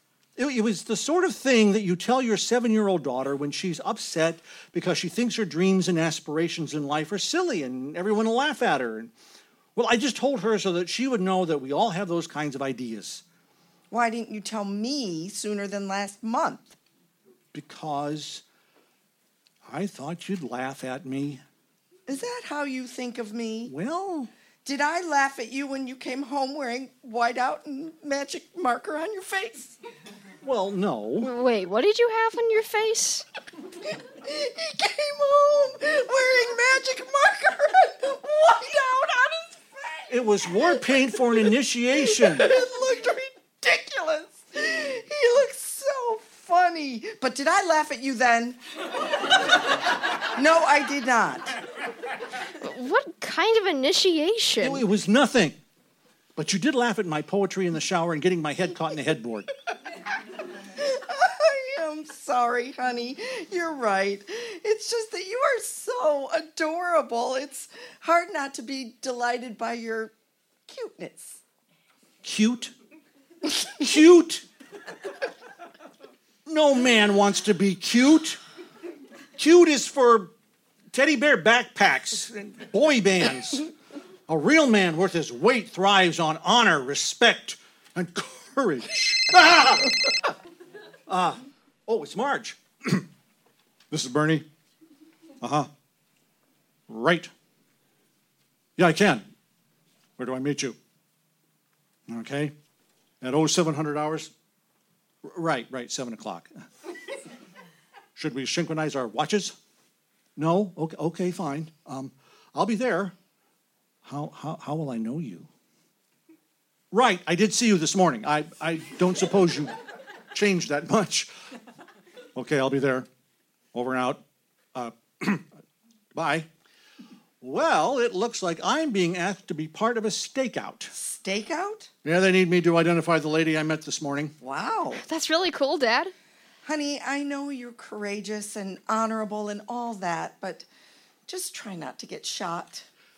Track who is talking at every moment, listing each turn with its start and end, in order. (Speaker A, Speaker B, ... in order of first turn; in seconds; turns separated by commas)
Speaker A: 0.4-9.1, Speaker A: 9.8-13.2, Speaker B: 13.9-16.8, Speaker A: 17.5-18.4, Speaker A: 19.7-21.4, Speaker B: 22.1-23.7, Speaker A: 23.7-24.3, Speaker B: 24.6-29.8, Speaker A: 30.4-31.3, Speaker C: 31.2-33.2, Speaker B: 34.2-40.1, Speaker A: 40.1-42.5, Speaker B: 40.6-41.5, Speaker B: 42.0-49.8, Speaker B: 50.4-51.6, Speaker C: 52.6-54.9, Speaker A: 54.6-55.6, Speaker A: 56.4-59.5, Speaker B: 60.8-70.1, Speaker B: 70.7-71.4, Speaker A: 72.2-72.7, Speaker A: 73.8-74.5, Speaker A: 76.5-78.4, Speaker A: 79.4-80.3, Speaker A: 80.9-83.7, Speaker A: 84.3-90.0, Speaker A: 91.1-93.1, Speaker A: 93.9-94.5, Speaker A: 95.4-95.7, Speaker A: 96.9-97.3, Speaker A: 98.8-99.3, Speaker A: 100.2-100.8, Speaker A: 102.1-102.5, Speaker A: 103.2-104.3, Speaker A: 105.2-106.5, Speaker A: 108.2-109.5, Speaker A: 110.4-113.2, Speaker A: 114.0-115.5, Speaker A: 116.9-119.7, Speaker A: 120.3-121.3, Speaker A: 122.3-123.1, Speaker A: 123.7-124.2, Speaker A: 124.8-125.5, Speaker A: 126.2-126.5, Speaker A: 127.4-130.9, Speaker B: 130.9-131.9, Speaker A: 132.0-134.3, Speaker B: 134.4-135.0, Speaker C: 134.9-136.1, Speaker B: 136.7-140.7, Speaker B: 141.3-142.8